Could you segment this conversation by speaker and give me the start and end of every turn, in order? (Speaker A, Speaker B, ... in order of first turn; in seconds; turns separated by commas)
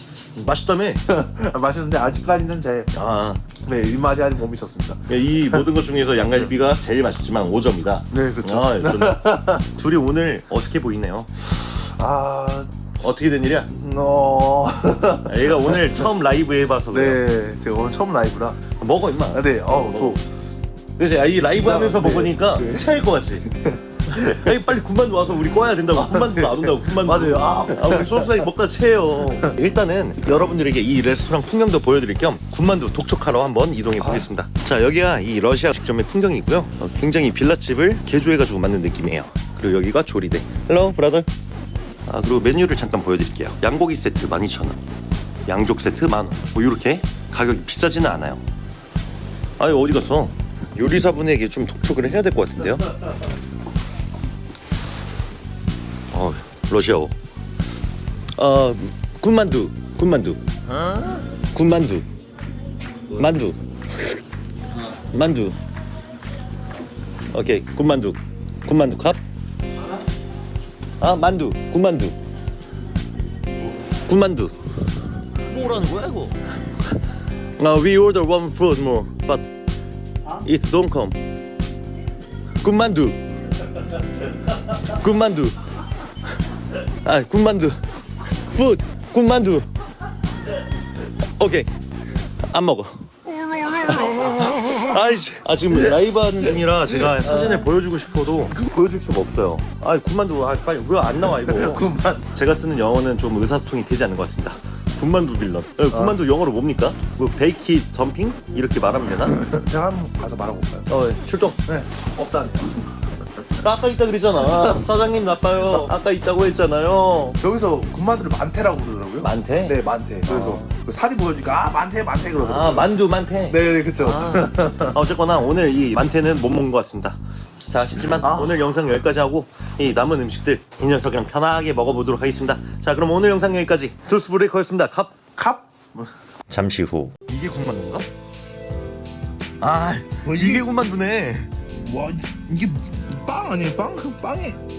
Speaker A: 0.3-1.0, Speaker B: 1.1-2.9, Speaker A: 2.9-3.4, Speaker B: 3.6-5.6, Speaker A: 5.1-11.3, Speaker B: 8.1-9.6, Speaker B: 11.6-12.7, Speaker A: 13.0-13.7, Speaker B: 13.7-15.8, Speaker A: 15.2-17.2, Speaker B: 16.9-18.6, Speaker A: 18.8-20.2, Speaker B: 19.3-20.2, Speaker A: 21.0-23.5, Speaker B: 21.5-22.9, Speaker B: 23.5-24.4, Speaker A: 24.1-41.3, Speaker B: 25.9-28.5, Speaker B: 34.0-34.3, Speaker A: 42.1-44.8, Speaker A: 45.5-48.4, Speaker A: 49.6-52.9, Speaker A: 56.1-57.1, Speaker A: 58.4-62.1, Speaker A: 63.1-64.2, Speaker A: 64.9-65.6, Speaker A: 67.3-69.2, Speaker A: 71.0-72.2, Speaker A: 74.1-74.6, Speaker A: 75.4-76.4, Speaker A: 77.6-79.5, Speaker A: 80.4-81.2, Speaker A: 82.6-83.2, Speaker A: 84.9-85.6, Speaker A: 87.0-87.8, Speaker A: 88.3-89.7, Speaker A: 91.4-91.7, Speaker A: 92.5-93.1, Speaker A: 93.7-109.4, Speaker B: 97.1-97.5, Speaker B: 101.3-102.3, Speaker B: 105.9-106.2, Speaker B: 109.3-110.9, Speaker A: 110.9-111.6, Speaker B: 111.7-112.8, Speaker A: 113.6-117.4, Speaker B: 117.4-123.0, Speaker A: 119.2-120.7, Speaker A: 122.4-135.2, Speaker B: 123.5-125.0, Speaker B: 128.2-128.6, Speaker B: 135.4-136.1, Speaker A: 136.5-138.1, Speaker A: 139.6-141.5, Speaker B: 140.2-140.7, Speaker B: 141.8-144.6